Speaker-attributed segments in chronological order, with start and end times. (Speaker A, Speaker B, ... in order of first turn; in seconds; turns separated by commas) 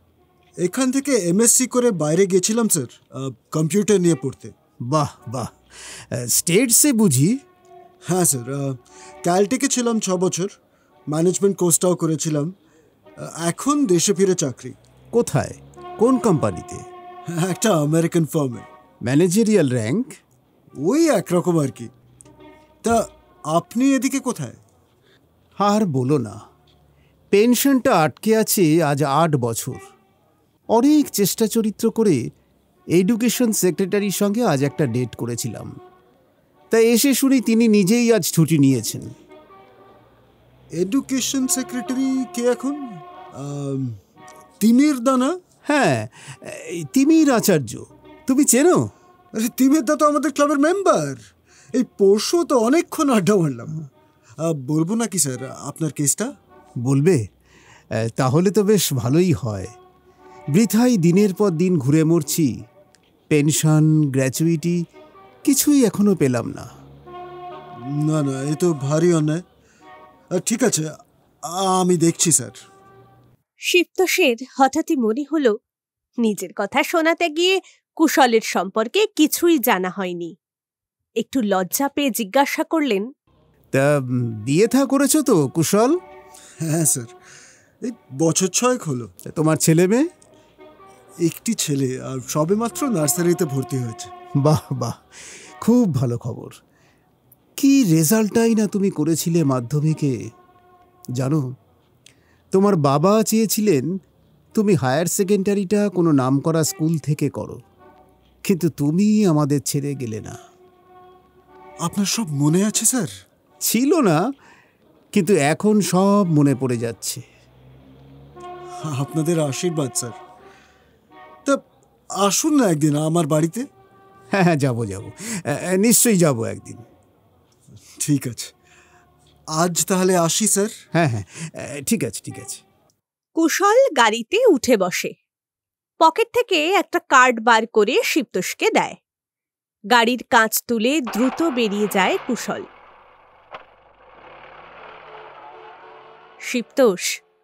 Speaker A: 0.6-4.5, Speaker B: 4.9-5.5, Speaker B: 6.2-7.3, Speaker A: 8.1-10.5, Speaker A: 11.1-12.5, Speaker A: 13.2-14.8, Speaker B: 15.1-16.8, Speaker A: 17.3-18.7, Speaker B: 19.1-20.1, Speaker A: 20.8-21.9, Speaker A: 23.5-24.6, Speaker B: 25.6-26.3, Speaker B: 27.3-29.8, Speaker B: 30.7-32.2, Speaker B: 33.0-35.7, Speaker B: 36.7-39.1, Speaker A: 40.8-42.8, Speaker A: 43.4-44.0, Speaker A: 44.6-45.3, Speaker B: 45.7-48.8, Speaker A: 49.3-51.2, Speaker A: 51.8-53.7, Speaker A: 54.4-56.3, Speaker B: 56.9-57.2, Speaker B: 58.2-59.7, Speaker B: 60.5-62.5, Speaker B: 63.3-64.8, Speaker B: 65.5-66.6, Speaker A: 68.0-69.4, Speaker A: 70.4-70.9, Speaker A: 71.5-72.5, Speaker C: 73.7-75.5, Speaker C: 76.2-80.3, Speaker C: 81.2-83.0, Speaker B: 84.5-85.9, Speaker A: 86.6-87.1, Speaker A: 87.8-89.1, Speaker B: 89.3-90.0, Speaker A: 91.2-94.1, Speaker B: 94.4-95.0, Speaker B: 95.6-96.5, Speaker B: 97.6-100.1, Speaker B: 102.5-103.8, Speaker B: 104.5-107.6, Speaker B: 108.5-110.3, Speaker A: 111.9-113.1, Speaker B: 113.7-114.2, Speaker B: 115.1-117.2, Speaker A: 118.8-120.2, Speaker A: 122.2-123.7, Speaker B: 124.3-126.8, Speaker A: 128.0-128.5, Speaker A: 129.6-130.7, Speaker B: 131.0-132.6, Speaker C: 133.4-135.1, Speaker C: 136.0-139.0, Speaker C: 139.9-142.6, Speaker C: 146.5-147.1